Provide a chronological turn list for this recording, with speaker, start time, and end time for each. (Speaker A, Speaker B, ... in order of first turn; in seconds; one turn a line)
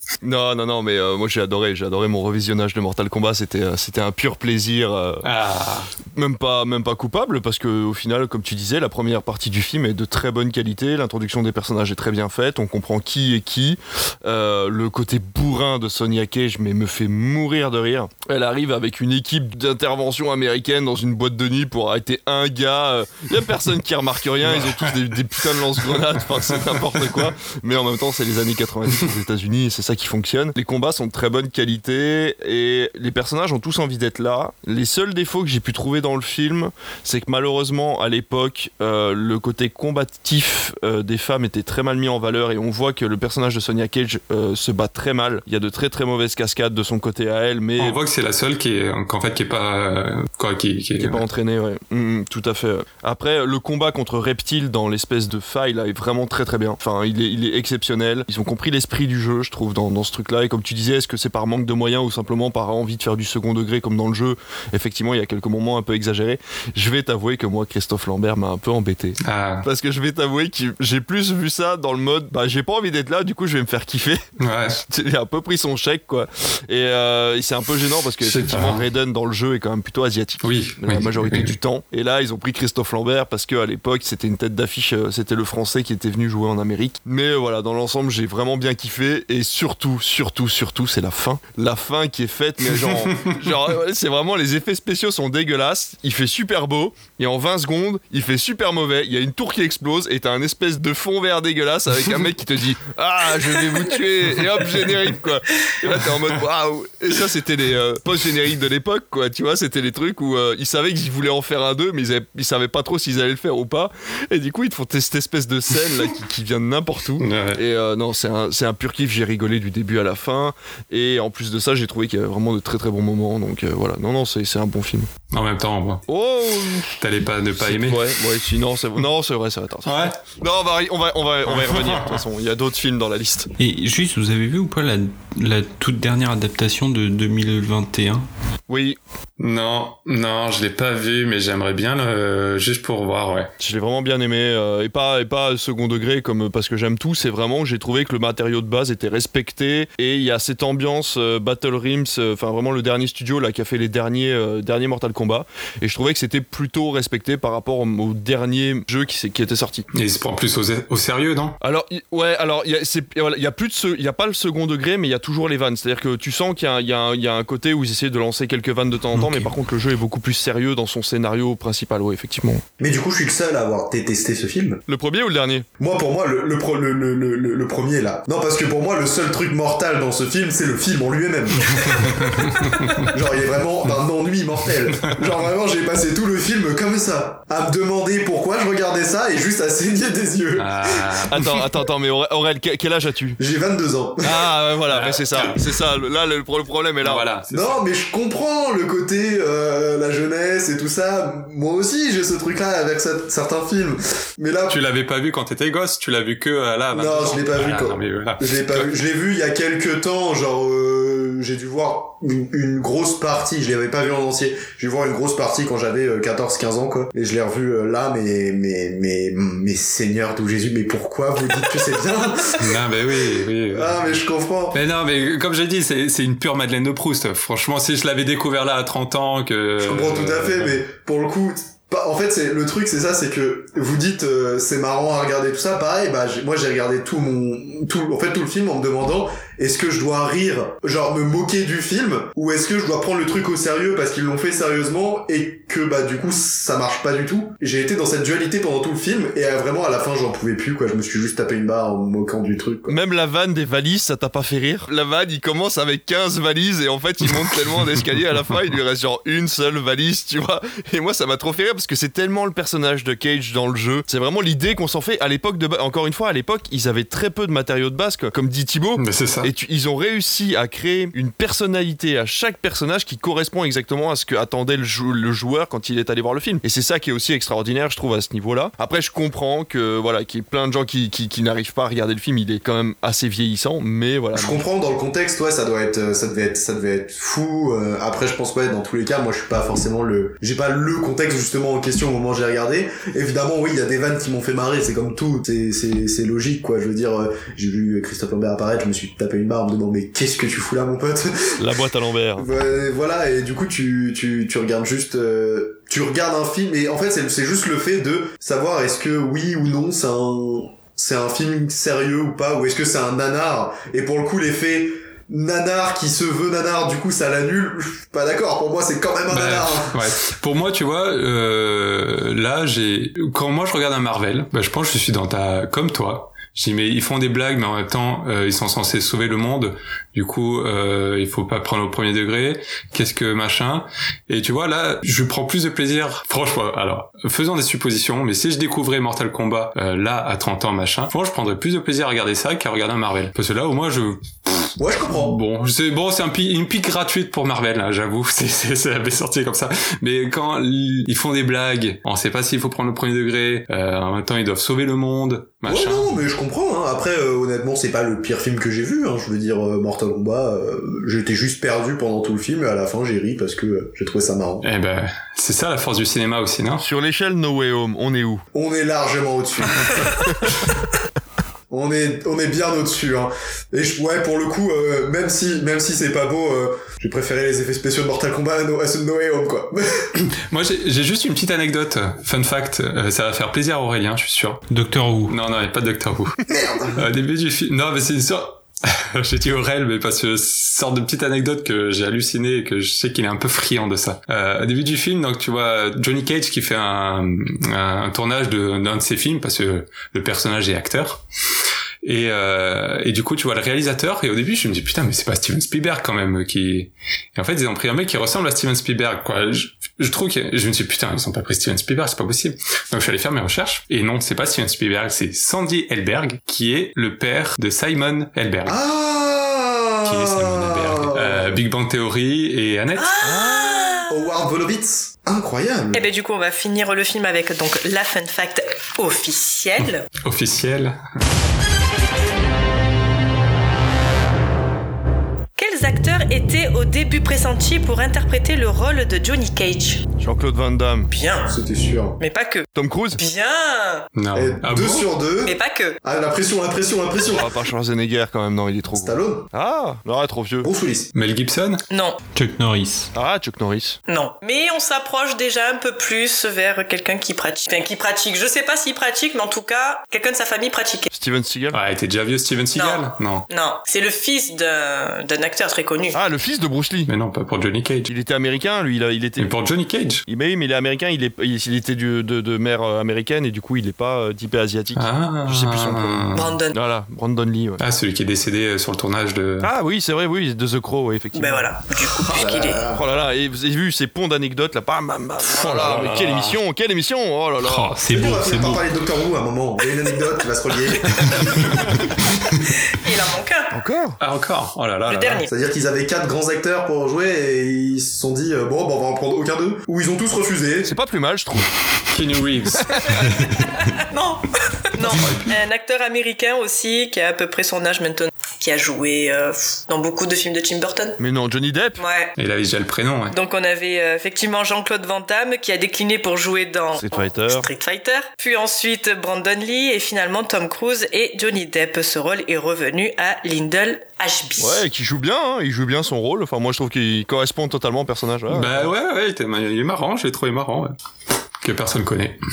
Speaker A: 0.2-5.2
Speaker B: 5.2-5.9
Speaker A: 6.1-48.0
Speaker B: 24.4-24.9
Speaker B: 25.9-27.3
Speaker B: 47.8-51.2
Speaker A: 51.0-74.2
Speaker B: 69.2-69.6
Speaker B: 74.4-74.8
Speaker A: 74.8-125.1
Speaker B: 78.2-78.8
Speaker B: 80.4-81.6
Speaker B: 117.2-117.6
Speaker B: 125.3-126.0
Speaker A: 126.1-127.0
Speaker B: 127.0-128.0
Speaker A: 127.6-133.5
Speaker B: 129.8-130.1
Speaker B: 131.5-132.2
Speaker C: 133.6-138.2
Speaker A: 138.7-139.0
Speaker B: 139.4-143.5
Speaker A: 143.6-159.9
Speaker B: 159.9-161.6
Speaker A: 161.6-172.6
Speaker B: 169.1-169.5
Speaker D: 172.8-174.8
Speaker A: 174.9-175.7
Speaker D: 175.8-191.2
Speaker B: 182.4-183.1
Speaker B: 190.6-191.6
Speaker A: 191.3-193.4
Speaker D: 193.4-194.5
Speaker A: 194.2-197.2
Speaker B: 194.9-195.6
Speaker B: 197.0-197.8
Speaker D: 197.5-204.8
Speaker B: 204.7-208.9
Speaker D: 206.9-222.7
Speaker B: 222.6-224.0
Speaker D: 223.7-224.8
Speaker B: 224.7-230.8
Speaker D: 229.8-253.0
Speaker A: 252.9-284.6
Speaker B: 269.0-269.5
Speaker D: 284.3-301.6
Speaker A: 301.6-302.4
Speaker D: 302.4-320.1
Speaker B: 319.3-356.1
Speaker D: 344.8-345.4
Speaker D: 355.6-364.6
Speaker B: 364.6-366.8
Speaker A: 366.8-368.4
Speaker D: 368.5-370.3
Speaker D: 371.7-380.3
Speaker B: 380.5-384.6
Speaker C: 384.7-385.3
Speaker B: 385.3-386.4
Speaker D: 386.5-387.1
Speaker B: 386.9-401.2
Speaker B: 402.0-418.8
Speaker D: 418.6-421.6
Speaker B: 420.0-423.1
Speaker E: 423.0-424.2
Speaker D: 423.2-426.0
Speaker E: 425.9-430.0
Speaker B: 430.2-431.0
Speaker E: 435.6-440.0
Speaker A: 440.2-441.1
Speaker E: 441.1-441.5
Speaker D: 441.5-442.2
Speaker E: 442.2-444.1
Speaker A: 442.7-443.2
Speaker B: 444.1-445.1
Speaker D: 444.3-447.5
Speaker E: 445.4-446.0
Speaker A: 447.3-450.7
Speaker D: 448.9-449.5
Speaker D: 450.6-451.1
Speaker B: 451.1-451.8
Speaker E: 451.9-452.2
Speaker C: 452.3-453.1
Speaker A: 453.1-454.0
Speaker E: 454.1-461.1
Speaker A: 461.1-461.8
Speaker B: 461.7-463.5
Speaker E: 462.7-466.2
Speaker A: 466.1-467.1
Speaker B: 467.1-468.1
Speaker A: 468.1-469.5
Speaker B: 469.4-470.2
Speaker A: 470.3-477.8
Speaker B: 474.9-476.5
Speaker E: 476.3-476.8
Speaker B: 477.8-479.7
Speaker A: 479.6-481.7
Speaker E: 481.3-482.8
Speaker D: 482.3-483.0
Speaker A: 482.9-488.0
Speaker B: 485.4-486.6
Speaker B: 487.6-487.9
Speaker C: 487.9-488.8
Speaker D: 488.1-491.5
Speaker E: 492.8-493.7
Speaker A: 493.7-494.2
Speaker B: 494.2-495.4
Speaker E: 495.1-495.5
Speaker D: 495.5-500.9
Speaker A: 500.8-501.7
Speaker B: 502.1-503.5
Speaker E: 503.9-511.2
Speaker B: 505.1-505.5
Speaker A: 511.2-512.0
Speaker E: 512.0-512.3
Speaker B: 512.4-513.3
Speaker E: 513.3-524.8
Speaker A: 516.9-517.7
Speaker A: 524.6-528.9
Speaker B: 528.5-530.9
Speaker B: 531.6-532.4